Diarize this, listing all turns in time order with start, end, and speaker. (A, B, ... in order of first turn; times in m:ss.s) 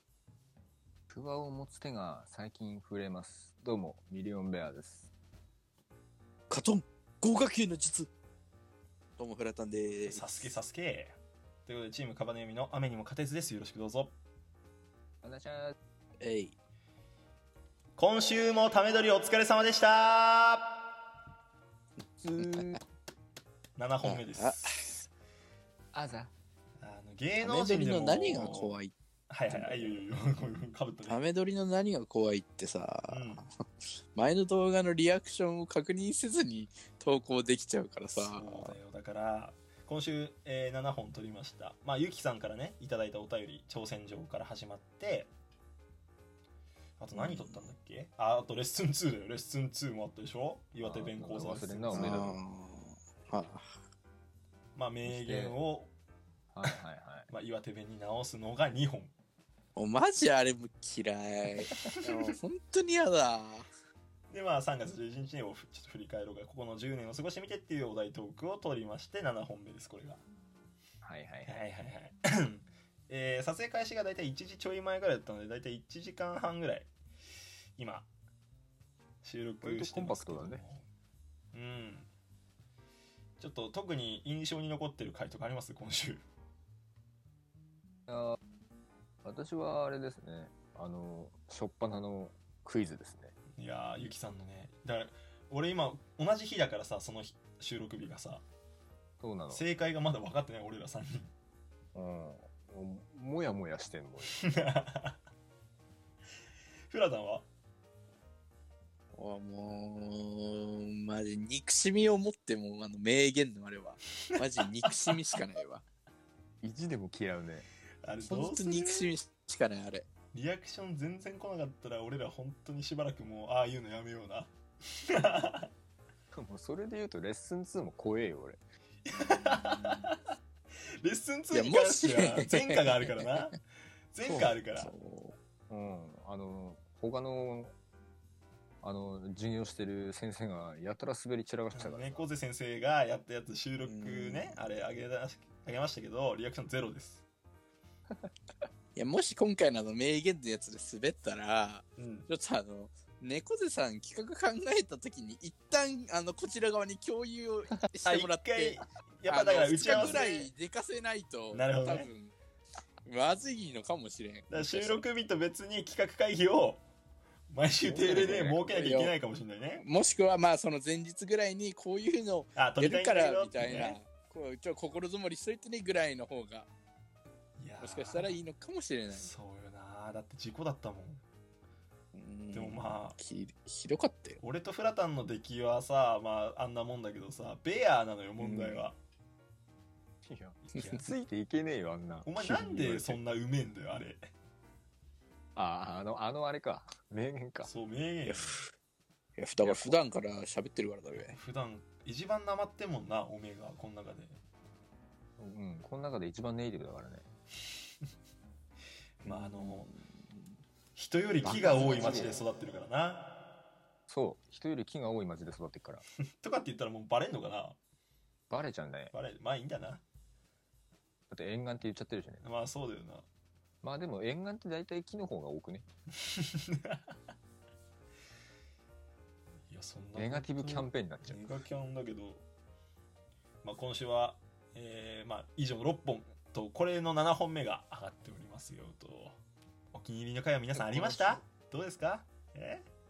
0:01.1-0:05.1 A
0:06.5-0:08.1 B
0:09.2-0:10.5 B
0:10.1-0:14.2 C
0:15.2-0:15.7 A
0:16.2-0:16.6 B
0:18.0-0:20.8 C
0:22.2-0:22.8 A
0:22.4-0:22.8 B
0:23.8-0:25.0 C
0:24.0-0:24.9 B
0:25.9-0:26.3 A
0:26.8-0:28.8 C
0:27.4-0:28.9 B
0:29.3-0:31.2 C
0:29.5-0:30.0 B
0:31.0-0:33.5 B
0:33.1-0:33.4 C
0:34.2-0:38.8 B
0:38.2-0:45.3 C
0:47.0-0:52.3 C
0:47.1-0:47.6 B
0:50.8-0:52.4 A
0:51.9-0:53.7 B
0:54.8-0:55.9 C
0:55.0-0:55.6 A
0:56.5-0:57.3 A
0:57.3-0:59.1 C
0:59.8-1:03.7 B
1:04.3-1:10.2 C
1:11.0-1:11.6 A
1:11.5-1:16.9 C
1:17.8-1:18.1 C
1:19.2-1:20.9 C
1:19.6-1:20.6 A
1:21.5-1:22.1 C
1:23.4-1:26.2 C
1:28.1-1:28.4 A
1:29.2-1:33.3 A
1:33.6-1:38.4 C
1:39.2-1:39.6 A
1:39.5-1:41.3 C
1:41.9-1:44.4 A
1:44.2-1:45.2 C
1:46.9-1:47.5 C
1:49.1-1:55.8 B
1:56.6-1:57.7 A
1:58.0-1:59.1 C
1:58.3-2:00.1 B
2:00.3-2:04.5 C
2:05.0-2:05.7 C
2:06.3-2:08.6 A
2:09.1-2:10.2 C
2:09.6-2:10.1 B
2:11.0-2:13.6 C
2:11.5-2:13.5 B
2:14.1-2:14.9 C
2:14.2-2:15.4 B
2:14.2-2:14.5 A
2:15.7-2:17.7 A
2:18.8-2:22.2 A
2:21.7-2:27.3 C
2:23.8-2:24.6 B
2:29.0-2:42.3 B
2:32.0-2:32.3 C
2:38.0-2:40.5 C
2:39.8-2:40.5 A
2:41.5-2:42.1 C
2:43.0-2:45.0 B
2:44.5-2:46.8 C
2:47.5-2:49.8 C
2:47.9-2:48.7 A
2:48.4-2:49.2 B
2:49.8-2:56.7 B
2:52.6-2:54.0 C
2:57.6-2:58.4 C
2:57.8-2:59.3 B
2:59.1-3:01.2 C
3:02.1-3:04.4 B
3:02.5-3:03.2 C
3:04.4-3:09.0 C
3:08.4-3:08.8 B
3:10.2-3:13.2 A
3:10.7-3:11.1 C
3:12.2-3:14.3 C
3:15.6-3:17.7 A
3:17.6-3:18.6 C
3:18.2-3:18.7 B
3:19.4-3:21.4 B
3:19.6-3:20.0 A
3:21.2-3:24.4 C
3:25.4-3:27.3 A
3:29.2-3:29.9 C
3:29.2-3:30.0 B
3:31.0-3:33.3 C
3:31.4-3:32.4 A
3:34.1-3:36.0 A
3:36.4-3:37.8 C
3:38.5-3:39.1 A
3:39.1-3:40.0 C
3:41.3-3:42.5 A
3:42.4-3:43.3 C
3:43.8-3:45.8 A
3:46.2-3:47.1 C
3:49.7-3:52.4 C
3:50.2-3:51.5 A
3:53.6-3:59.4 C
3:59.9-4:02.8 C
4:00.7-4:01.4 A